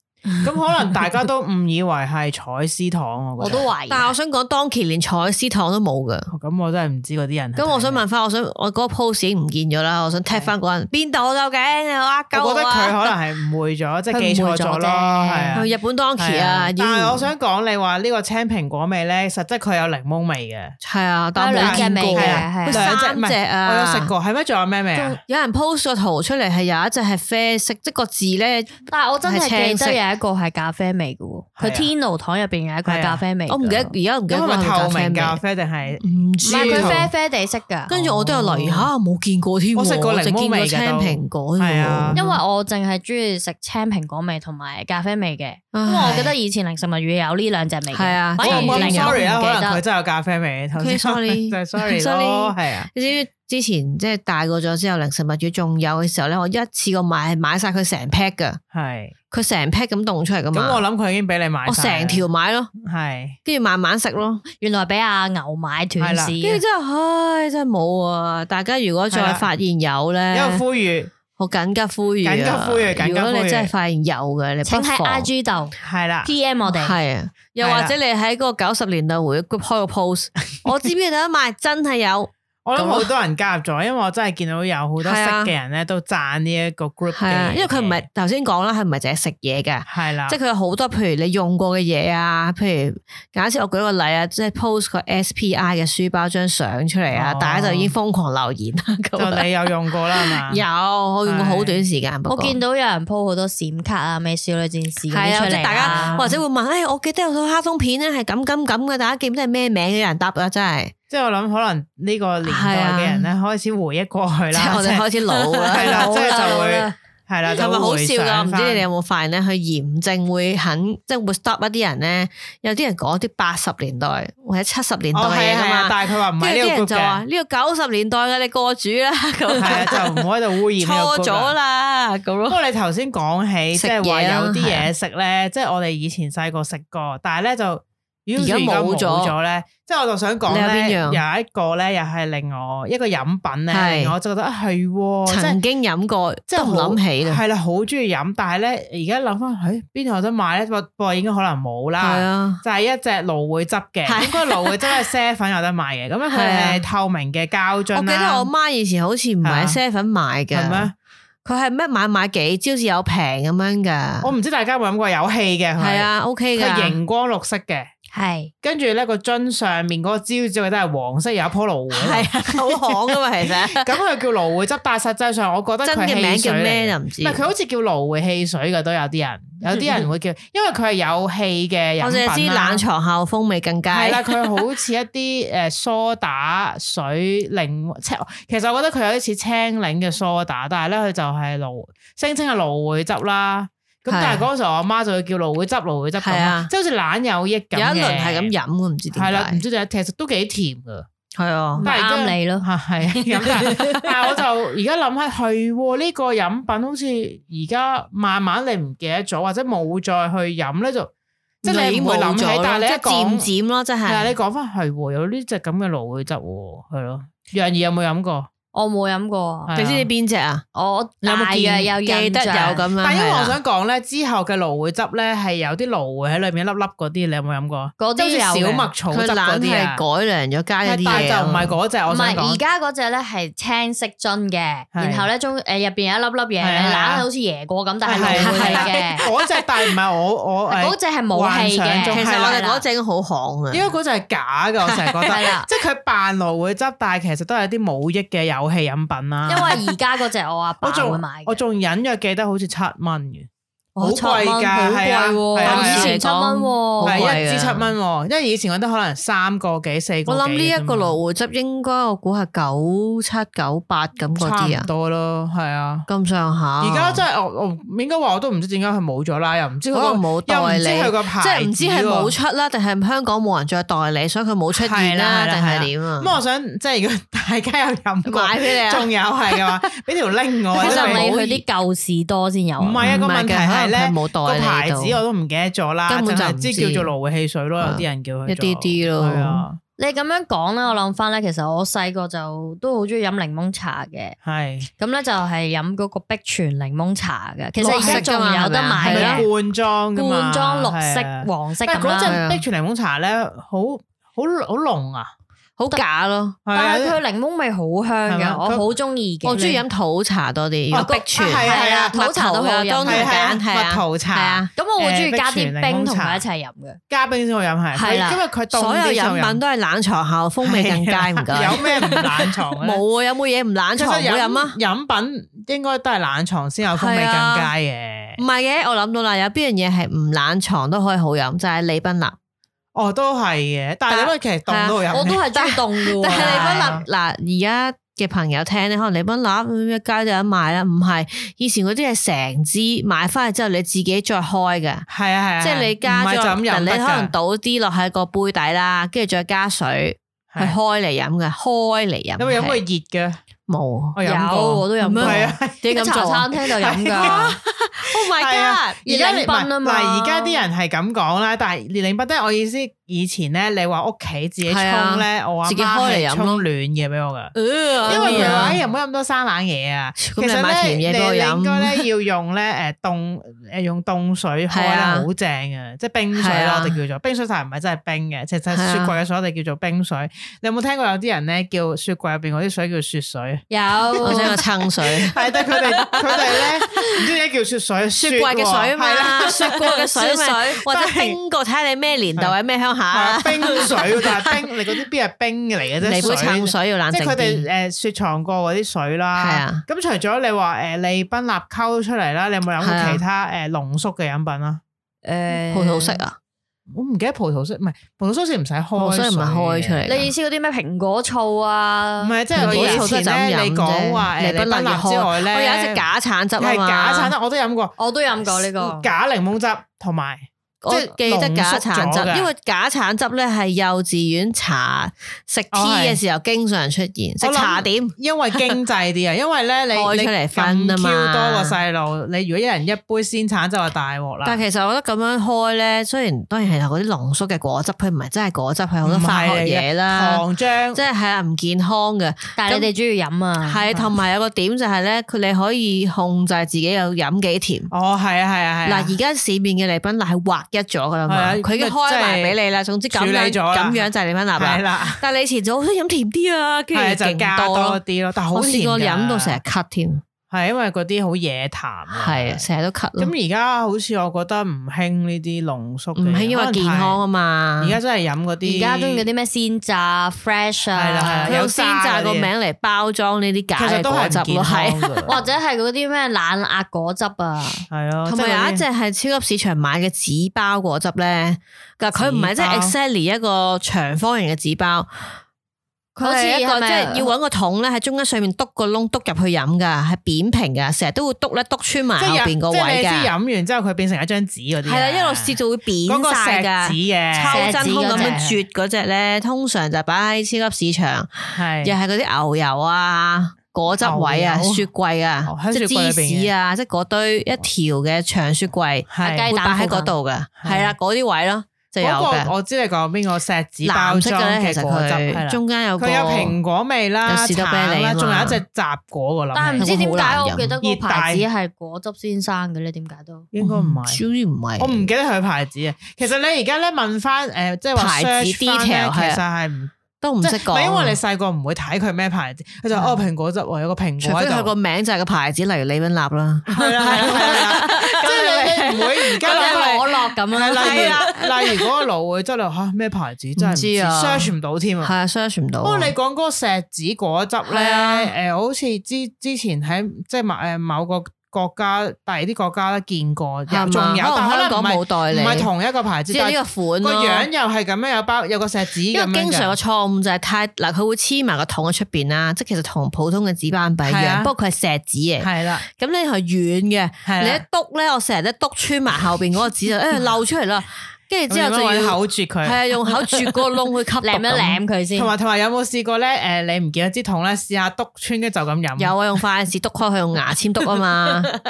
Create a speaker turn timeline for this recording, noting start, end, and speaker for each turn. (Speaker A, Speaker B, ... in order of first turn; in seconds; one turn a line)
Speaker A: 0.4-3.7
Speaker B: 3.4-4.1
Speaker C: 3.9-6.3
Speaker A: 6.3-8.0
Speaker C: 7.6-13.1
Speaker A: 12.3-20.8
Speaker B: 14.1-15.6
Speaker C: 15.5-17.3
Speaker C: 20.8-24.1
Speaker B: 21.4-22.9
Speaker A: 21.5-25.2
Speaker C: 24.9-30.0
Speaker B: 28.9-33.9
Speaker A: 31.6-31.9
Speaker A: 32.9-33.2
Speaker C: 33.5-35.4
Speaker A: 34.3-37.1
Speaker C: 36.0-37.1
Speaker B: 36.4-37.9
Speaker C: 37.9-42.4
Speaker A: 37.9-38.9
Speaker A: 39.8-42.2
Speaker B: 42.1-49.8
Speaker C: 45.7-46.4
Speaker C: 47.9-49.2
Speaker A: 48.4-52.9
Speaker C: 50.8-58.6
Speaker A: 58.7-59.1
Speaker C: 59.3-60.8
Speaker A: 60.5-62.2
Speaker C: 61.7-62.7
Speaker A: 62.8-63.4
Speaker C: 63.4-64.4
Speaker B: 64.6-66.6
Speaker A: 66.0-66.3
Speaker C: 66.4-70.6
Speaker A: 69.1-69.5
Speaker A: 70.3-71.1
Speaker C: 71.3-75.3
Speaker A: 72.2-73.7
Speaker B: 74.7-77.0
Speaker A: 75.8-76.3
Speaker C: 76.7-83.1
Speaker A: 77.6-77.9
Speaker A: 82.6-88.0
Speaker C: 85.0-85.5
Speaker C: 87.2-99.5
Speaker A: 89.9-90.4
Speaker A: 97.1-97.9
Speaker A: 99.2-100.6
Speaker C: 100.1-102.6
Speaker A: 101.2-101.8
Speaker B: 102.3-106.3
Speaker C: 105.1-110.9
Speaker A: 105.8-106.4
Speaker A: 111.1-118.8
Speaker C: 112.5-113.3
Speaker C: 114.5-116.8
Speaker B: 115.7-116.9
Speaker C: 117.5-130.1
Speaker A: 125.1-127.2
Speaker A: 129.5-131.5
Speaker C: 130.8-132.6
Speaker A: 132.5-145.6
Speaker C: 133.8-134.9
Speaker C: 138.4-139.3
Speaker C: 140.5-141.2
Speaker C: 143.7-144.1
Speaker C: 145.3-147.4
Speaker A: 146.5-158.5
Speaker C: 152.0-152.6
Speaker C: 154.1-155.0
Speaker C: 156.3-156.8
Speaker C: 157.9-160.9
Speaker A: 159.4-159.8
Speaker A: 160.5-160.9
Speaker C: 161.4-164.3
Speaker A: 164.2-167.9
Speaker C: 165.8-167.0
Speaker B: 168.1-168.5
Speaker A: 168.6-182.8
Speaker C: 171.9-173.9
Speaker C: 175.8-177.5
Speaker C: 179.7-180.0
Speaker C: 182.0-184.5
Speaker A: 183.9-198.5
Speaker C: 194.1-194.4
Speaker C: 196.2-196.7
Speaker C: 197.7-199.6
Speaker A: 199.1-201.1
Speaker C: 201.4-201.9
Speaker A: 201.8-211.1
Speaker B: 201.8-202.6
Speaker C: 203.6-204.1
Speaker A: 211.6-213.5
Speaker C: 211.6-214.3
Speaker A: 214.0-218.5
Speaker B: 218.7-219.7
Speaker A: 219.7-220.1
Speaker C: 219.7-220.6
Speaker B: 220.7-222.9
Speaker C: 221.2-223.6
Speaker A: 223.0-230.0
Speaker B: 228.0-228.9
Speaker C: 229.1-231.8
Speaker A: 230.8-232.6
Speaker B: 232.1-239.2
Speaker A: 234.9-235.3
Speaker A: 236.6-237.2
Speaker A: 238.0-242.6
Speaker C: 238.1-239.3
Speaker B: 240.7-242.8
Speaker C: 242.1-244.0
Speaker A: 243.7-249.8
Speaker C: 244.8-245.4
Speaker B: 245.3-245.7
Speaker B: 249.5-251.6
Speaker A: 250.8-253.5
Speaker B: 254.0-257.4
Speaker A: 254.0-256.1
Speaker C: 255.6-257.9
Speaker A: 257.0-261.2
Speaker C: 260.3-264.9
Speaker A: 264.4-266.1
Speaker C: 266.1-267.2
Speaker A: 266.8-272.4
Speaker C: 269.9-276.4
Speaker A: 274.7-281.2
Speaker C: 278.2-279.6
Speaker C: 280.7-281.6
Speaker B: 280.8-283.2
Speaker A: 282.8-289.8
Speaker C: 283.0-285.2
Speaker C: 286.1-287.1
Speaker C: 287.8-289.6
Speaker B: 290.0-294.4
Speaker A: 294.4-294.9
Speaker B: 295.0-299.5
Speaker C: 297.8-299.5
Speaker A: 297.8-298.3
Speaker A: 299.0-305.3
Speaker B: 300.1-302.4
Speaker C: 302.2-302.6
Speaker C: 305.8-306.6
Speaker A: 306.6-307.2
Speaker B: 306.7-309.8
Speaker A: 308.3-308.9
Speaker C: 309.4-314.7
Speaker A: 310.9-312.1
Speaker B: 311.0-313.4
Speaker A: 313.0-316.4
Speaker B: 314.8-317.0
Speaker A: 317.1-319.6
Speaker B: 318.0-318.4
Speaker C: 318.7-324.8
Speaker A: 320.6-323.0
Speaker A: 323.9-328.4
Speaker C: 326.9-327.7
Speaker C: 328.4-332.4
Speaker A: 332.9-335.4
Speaker C: 334.7-345.1
Speaker B: 335.1-337.0
Speaker A: 336.3-337.0
Speaker A: 345.1-347.3
Speaker C: 345.6-352.8
Speaker A: 350.5-350.8
Speaker A: 352.4-353.4
Speaker C: 353.7-354.2
Speaker A: 354.1-355.8
Speaker B: 354.2-357.4
Speaker C: 355.0-359.0
Speaker A: 356.8-389.8
Speaker B: 359.0-360.6
Speaker C: 364.6-366.6
Speaker C: 367.5-368.8
Speaker B: 368.1-368.8
Speaker C: 370.2-372.1
Speaker C: 374.7-375.3
Speaker C: 376.4-377.0
Speaker C: 378.7-379.2
Speaker B: 383.7-384.6
Speaker C: 384.2-387.2
Speaker C: 388.1-394.6
Speaker B: 389.4-390.8
Speaker A: 390.8-391.4
Speaker A: 393.1-404.8
Speaker C: 396.0-397.7
Speaker C: 399.4-399.8
Speaker C: 402.8-403.2
Speaker B: 405.2-406.2
Speaker C: 405.7-406.4
Speaker A: 406.9-410.0
Speaker C: 409.0-410.3
Speaker B: 410.1-413.1
Speaker A: 412.2-416.0
Speaker C: 412.5-417.4
Speaker A: 416.6-422.5
Speaker B: 418.0-419.1
Speaker C: 420.8-428.8
Speaker A: 425.7-426.2
Speaker A: 427.4-434.6
Speaker C: 429.9-431.8
Speaker C: 434.4-442.9
Speaker A: 439.0-441.0
Speaker B: 442.6-443.8
Speaker C: 443.6-447.9
Speaker A: 447.9-449.1
Speaker C: 448.9-458.0
Speaker A: 451.3-452.6
Speaker A: 453.1-455.2
Speaker A: 456.9-459.6
Speaker C: 458.5-460.2
Speaker A: 460.5-462.6
Speaker C: 462.1-463.3
Speaker A: 463.2-467.2
Speaker C: 466.1-468.0
Speaker A: 467.8-469.2
Speaker B: 468.6-471.6
Speaker A: 470.9-472.5
Speaker C: 471.5-475.4
Speaker A: 473.8-475.4
Speaker B: 475.2-477.9
Speaker A: 477.9-478.8
Speaker C: 478.2-485.4
Speaker A: 482.1-482.9
Speaker B: 486.2-487.3
Speaker C: 486.2-493.3
Speaker A: 492.2-498.6
Speaker C: 494.8-512.5
Speaker B: 497.5-498.4
Speaker A: 501.5-502.0
Speaker A: 503.9-504.9
Speaker A: 505.4-506.5
Speaker A: 509.1-509.5
Speaker B: 509.2-510.1
Speaker A: 510.6-510.9
Speaker A: 512.0-519.9
Speaker C: 513.8-516.6
Speaker C: 517.2-518.6
Speaker B: 519.5-523.5
Speaker C: 519.8-520.7
Speaker A: 520.8-521.5
Speaker A: 523.5-524.2
Speaker C: 523.6-525.1
Speaker A: 524.8-534.7
Speaker C: 528.0-529.4
Speaker C: 530.2-531.2
Speaker C: 532.9-533.2
Speaker C: 534.2-540.0
Speaker A: 536.7-545.1
Speaker B: 537.1-538.8
Speaker B: 539.4-541.4
Speaker C: 540.7-541.9
Speaker C: 543.6-546.1
Speaker A: 545.8-559.8
Speaker C: 547.7-548.3
Speaker C: 553.7-555.7
Speaker C: 556.3-557.5
Speaker C: 559.1-574.8
Speaker A: 564.1-564.5
Speaker A: 565.4-565.9
Speaker A: 567.2-567.6
Speaker A: 571.5-572.8
Speaker B: 574.2-575.3
Speaker A: 575.1-579.1
Speaker C: 579.0-581.5